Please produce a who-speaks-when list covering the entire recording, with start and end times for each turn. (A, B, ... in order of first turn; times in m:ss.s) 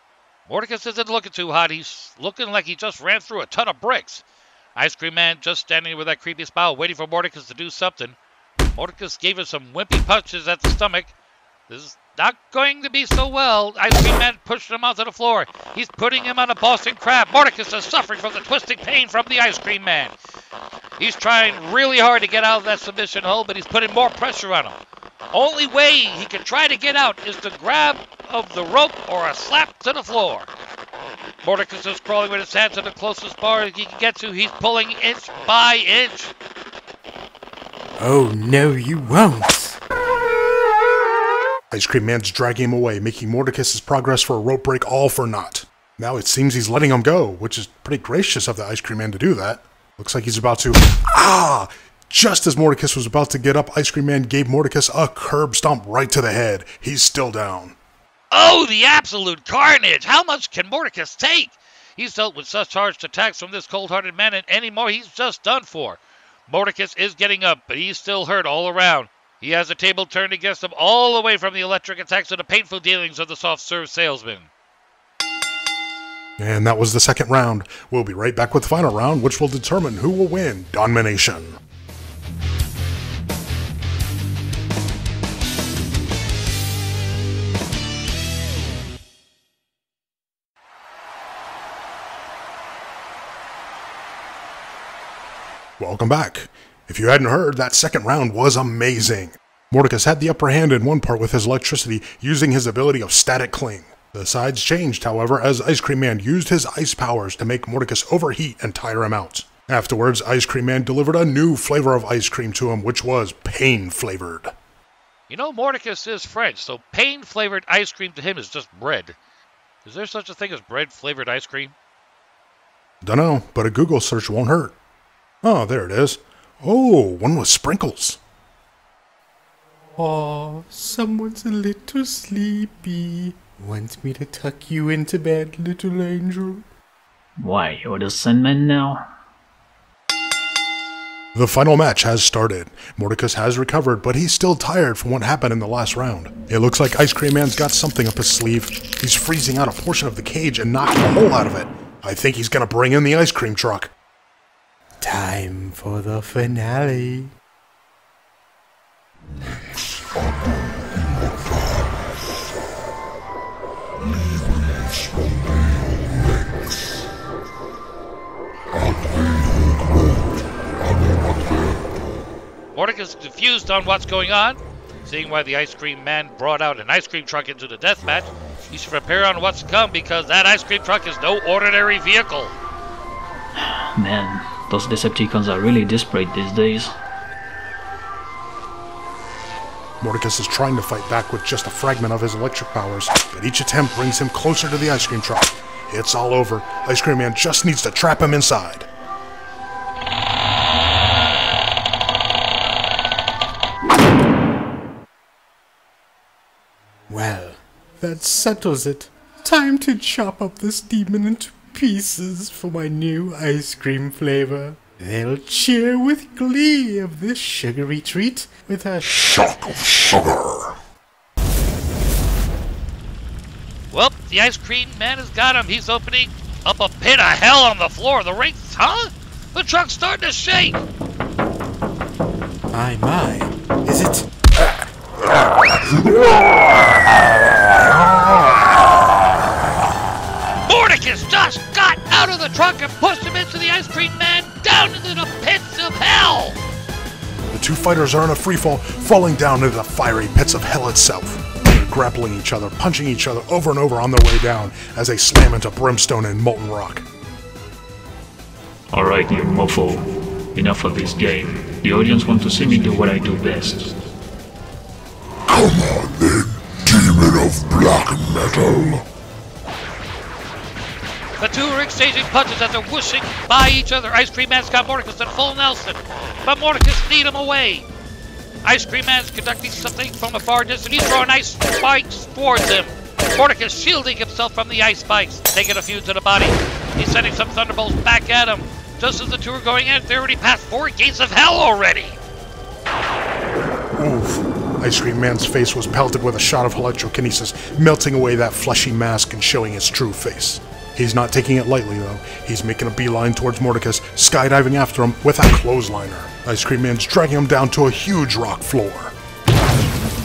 0:00.5-0:04.2 A
0:04.8-0:08.2 A
0:08.7-0:11.1 A
0:11.7-0:20.1 A
0:21.0-0:24.8 A
0:25.3-0:30.5 A
0:31.4-0:36.3 A
0:38.0-0:39.8 B
0:41.7-0:57.8 C
0:58.3-1:14.5 A
1:16.4-1:21.6 C
1:35.8-1:54.5 C
1:55.3-1:59.2 A
1:59.8-2:01.7 A
2:03.0-2:04.8 C
2:05.4-2:08.2 C
2:10.0-2:16.6 B
2:17.4-2:19.1 D
2:21.3-2:33.9 C
2:35.0-2:37.3 B
2:44.1-2:46.7 E
2:48.7-2:50.3 E
2:50.9-2:51.8 E
2:52.7-3:02.6 A
3:03.6-3:06.9 D
3:10.0-3:18.9 C
3:27.1-3:39.7 B
3:39.1-3:40.7 E
3:43.9-3:50.8 A
3:52.7-3:54.3 B
4:00.7-4:06.6 A
4:07.5-4:17.1 C
4:18.9-4:23.9 D
4:25.5-4:29.0 E
4:31.4-4:37.8 A
4:38.6-4:52.2 A
4:54.0-5:09.1 C